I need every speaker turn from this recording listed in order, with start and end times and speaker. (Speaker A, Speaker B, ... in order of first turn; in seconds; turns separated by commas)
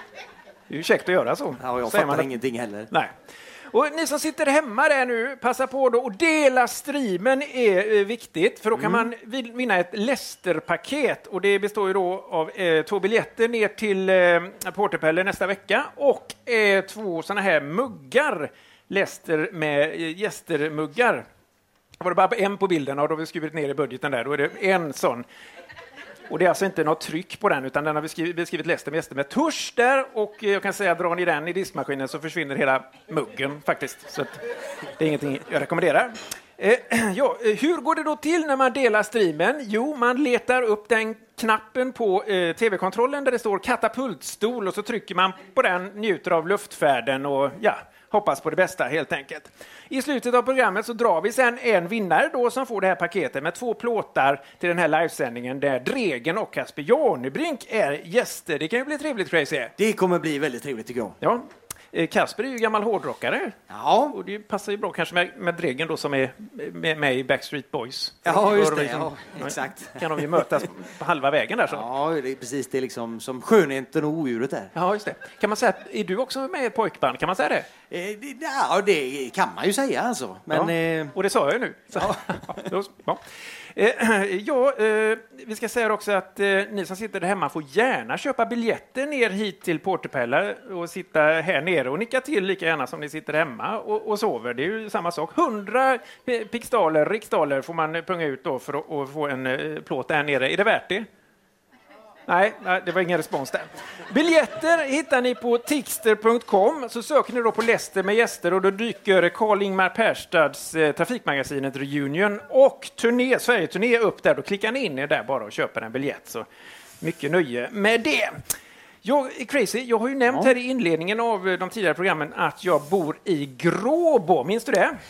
Speaker A: 0.7-2.3, Speaker B: 1.6-2.9, Speaker A: 3.7-21.2, Speaker B: 8.8-9.1, Speaker A: 22.0-25.2, Speaker A: 26.3-34.4, Speaker A: 35.0-59.7, Speaker B: 59.8-61.2, Speaker A: 61.2-63.6, Speaker B: 63.7-64.2, Speaker A: 64.1-71.9, Speaker B: 68.2-70.0, Speaker B: 71.7-74.7, Speaker A: 74.7-77.7, Speaker B: 77.9-81.1, Speaker A: 80.5-83.2, Speaker A: 83.8-101.1, Speaker A: 102.3-116.5, Speaker A: 117.0-118.4, Speaker A: 119.0-125.0